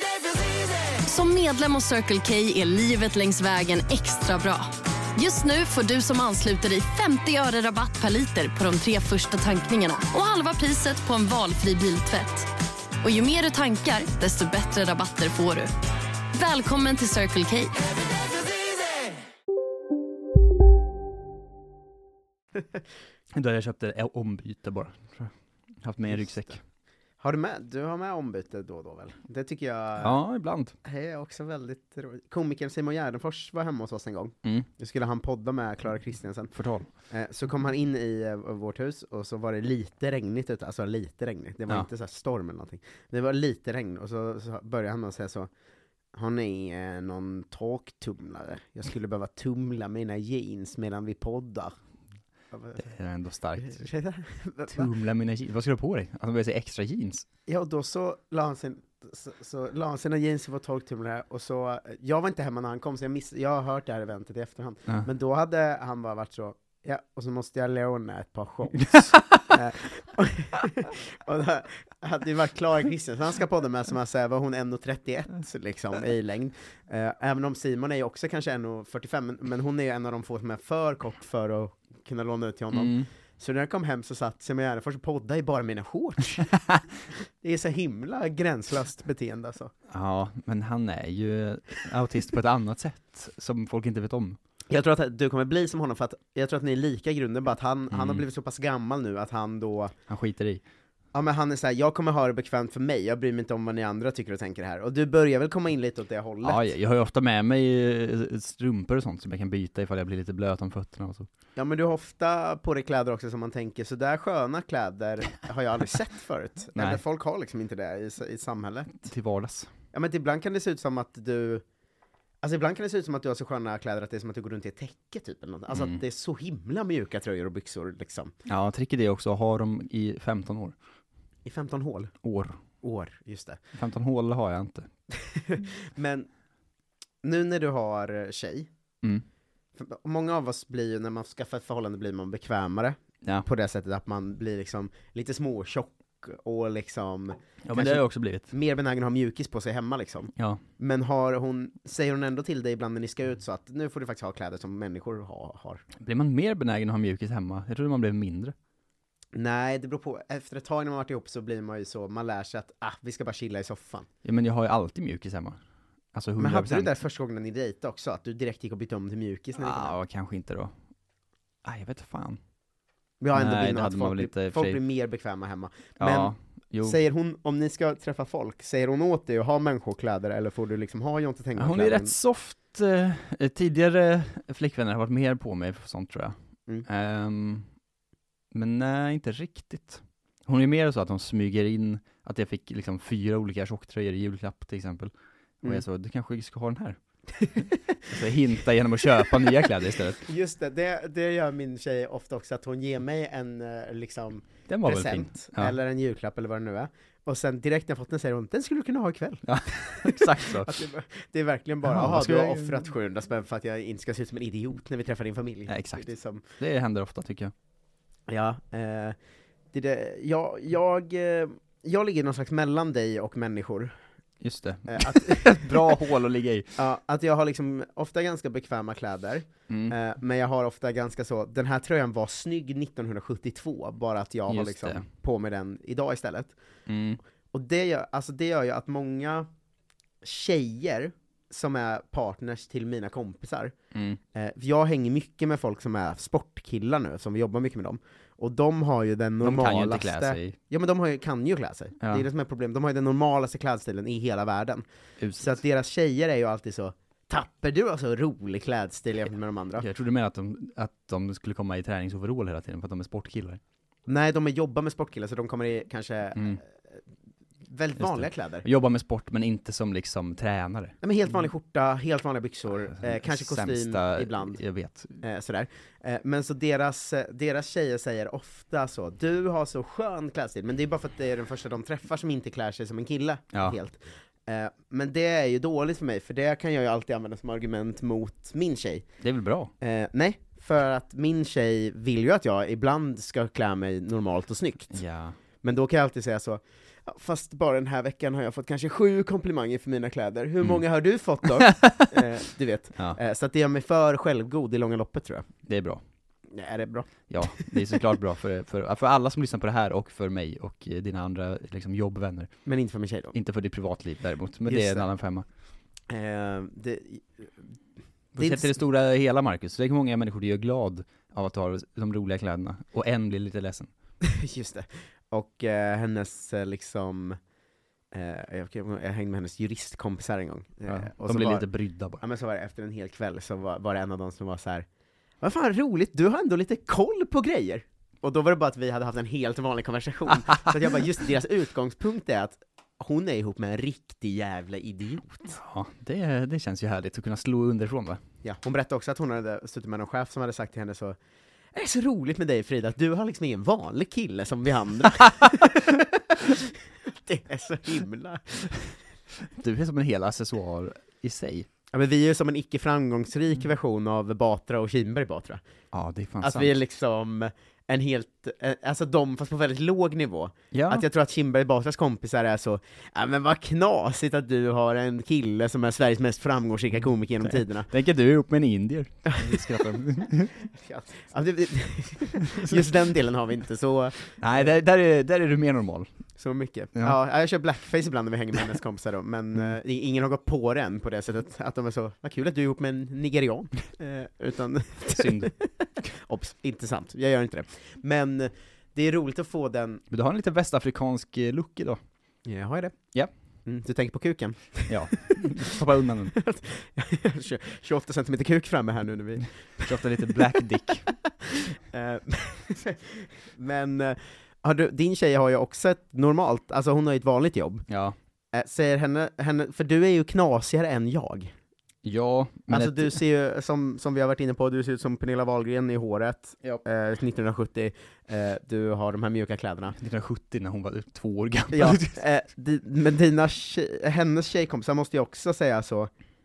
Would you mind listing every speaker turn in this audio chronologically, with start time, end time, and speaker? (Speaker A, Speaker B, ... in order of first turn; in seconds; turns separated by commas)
Speaker A: 1.1-12.5, Speaker A: 13.0-15.7, Speaker A: 16.4-17.7, Speaker B: 23.3-25.3, Speaker B: 25.8-26.6, Speaker C: 27.2-30.1, Speaker B: 30.0-30.7, Speaker C: 30.9-36.5, Speaker B: 36.5-36.9, Speaker C: 37.1-45.5, Speaker C: 46.1-51.7, Speaker B: 52.8-53.9, Speaker C: 54.1-54.5, Speaker B: 54.6-57.2, Speaker C: 57.5-68.8, Speaker B: 64.9-65.1, Speaker B: 68.8-69.6, Speaker C: 69.5-82.7, Speaker B: 82.7-83.1, Speaker C: 83.4-86.5, Speaker B: 86.3-86.7, Speaker C: 87.4-89.7, Speaker B: 89.9-94.4, Speaker C: 94.7-99.9, Speaker B: 97.9-98.3, Speaker B: 100.1-100.6, Speaker C: 101.1-106.4, Speaker B: 106.4-111.3, Speaker C: 111.6-118.9, Speaker B: 116.8-117.0, Speaker B: 118.9-119.7, Speaker C: 119.9-121.6, Speaker C: 122.4-128.3, Speaker B: 125.7-126.0, Speaker B: 128.5-130.8, Speaker C: 131.4-132.1, Speaker B: 132.2-132.6, Speaker C: 132.9-133.6, Speaker B: 133.7-134.9, Speaker C: 135.5-136.2, Speaker C: 137.2-138.7, Speaker C: 139.8-142.9, Speaker C: 143.5-147.8, Speaker B: 147.6-148.6, Speaker C: 148.6-155.8, Speaker B: 156.0-158.5, Speaker C: 159.3-164.1, Speaker B: 164.2-165.6, Speaker B: 166.1-167.0, Speaker C: 166.5-169.8, Speaker B: 169.6-170.7, Speaker B: 171.7-172.4, Speaker C: 173.2-176.2, Speaker B: 173.3-174.8, Speaker B: 176.0-177.0, Speaker C: 176.9-182.1, Speaker B: 181.6-187.7, Speaker B: 188.5-200.3, Speaker C: 200.3-205.0, Speaker B: 204.7-205.8, Speaker C: 205.6-209.4, Speaker B: 209.4-210.9, Speaker C: 210.9-211.8, Speaker B: 211.8-212.9, Speaker C: 212.9-216.4, Speaker B: 215.7-217.5, Speaker C: 218.3-219.2, Speaker C: 219.7-223.9, Speaker B: 224.4-226.9, Speaker C: 226.9-229.4, Speaker B: 229.7-230.0, Speaker C: 230.0-236.5, Speaker B: 234.5-235.1, Speaker B: 236.9-237.2, Speaker C: 237.5-239.5, Speaker C: 240.2-243.7, Speaker C: 244.3-254.8, Speaker B: 249.4-250.6, Speaker B: 252.0-252.3, Speaker B: 255.2-255.6, Speaker C: 255.6-259.8, Speaker B: 259.7-263.6, Speaker C: 264.1-266.6, Speaker B: 266.4-266.6, Speaker B: 267.9-271.5, Speaker C: 271.6-274.2, Speaker B: 272.7-275.2, Speaker C: 275.3-289.0, Speaker B: 283.5-283.8, Speaker B: 289.2-289.7, Speaker C: 289.8-294.9, Speaker B: 294.9-295.4, Speaker C: 295.6-305.4, Speaker B: 300.6-300.9, Speaker B: 301.4-302.3, Speaker B: 305.7-306.0, Speaker C: 306.5-307.0, Speaker B: 307.3-312.5, Speaker C: 312.7-313.3, Speaker B: 313.3-315.4, Speaker C: 316.1-317.5, Speaker B: 318.3-323.9, Speaker C: 324.3-327.4, Speaker C: 328.1-331.6, Speaker B: 330.9-332.2, Speaker C: 332.2-334.9, Speaker C: 335.4-345.4, Speaker B: 340.6-341.1, Speaker B: 345.5-348.2, Speaker C: 348.5-351.2, Speaker C: 351.7-356.1, Speaker C: 357.3-358.6, Speaker B: 359.6-361.7, Speaker C: 361.9-365.6, Speaker B: 365.9-366.9, Speaker C: 366.4-370.5, Speaker B: 370.7-371.1, Speaker C: 371.1-377.4, Speaker B: 377.0-380.7, Speaker C: 380.8-382.4, Speaker B: 382.2-383.5, Speaker B: 384.2-387.2, Speaker C: 386.4-395.0, Speaker B: 395.0-395.7, Speaker C: 396.1-400.0, Speaker B: 400.1-402.0, Speaker C: 402.5-402.9, Speaker C: 403.7-404.8, Speaker B: 404.9-406.4, Speaker C: 406.7-409.3, Speaker B: 409.4-411.2, Speaker C: 411.9-417.8, Speaker B: 417.9-418.2, Speaker C: 418.5-421.5, Speaker B: 422.0-423.2, Speaker C: 422.9-429.9, Speaker B: 429.9-432.4, Speaker C: 432.3-436.1